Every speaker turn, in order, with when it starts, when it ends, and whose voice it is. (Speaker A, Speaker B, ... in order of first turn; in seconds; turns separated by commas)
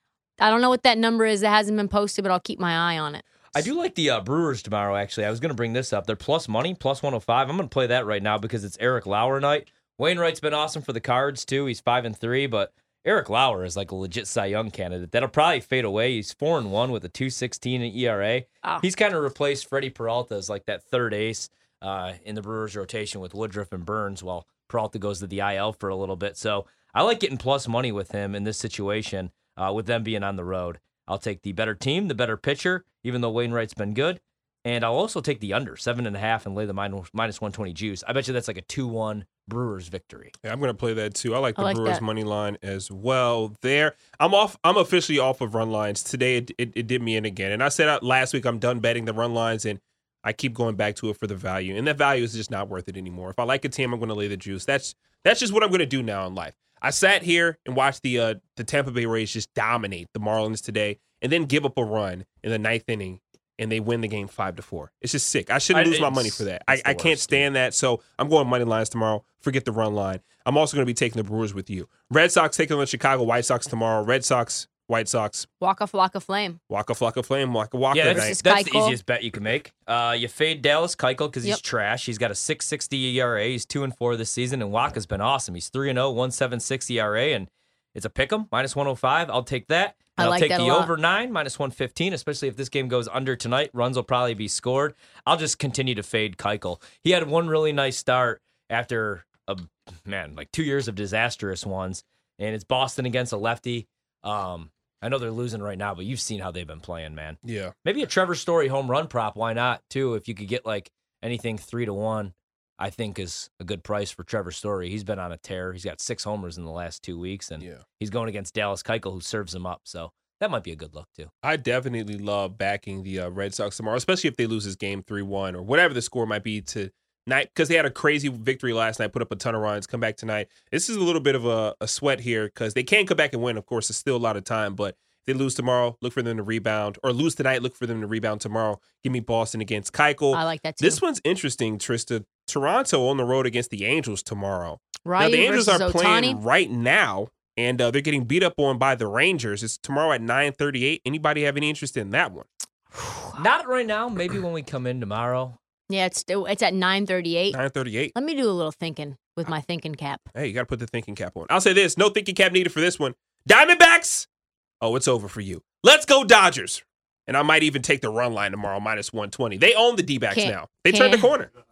Speaker A: 0.4-3.2, Speaker B: 3.5-40.3, Speaker C: 40.4-75.5, Speaker A: 41.6-42.0, Speaker B: 65.7-67.5, Speaker A: 75.6-76.6, Speaker C: 76.7-78.4, Speaker B: 77.9-121.3, Speaker A: 78.1-79.0, Speaker A: 90.2-90.9, Speaker C: 107.4-107.7, Speaker C: 121.4-152.5, Speaker A: 140.3-141.0, Speaker A: 145.1-146.4, Speaker A: 153.0-153.4, Speaker B: 153.4-155.6, Speaker A: 155.9-157.6, Speaker C: 157.5-158.1, Speaker A: 158.2-160.2, Speaker C: 160.3-164.3, Speaker C: 164.8-171.5, Speaker A: 170.3-171.3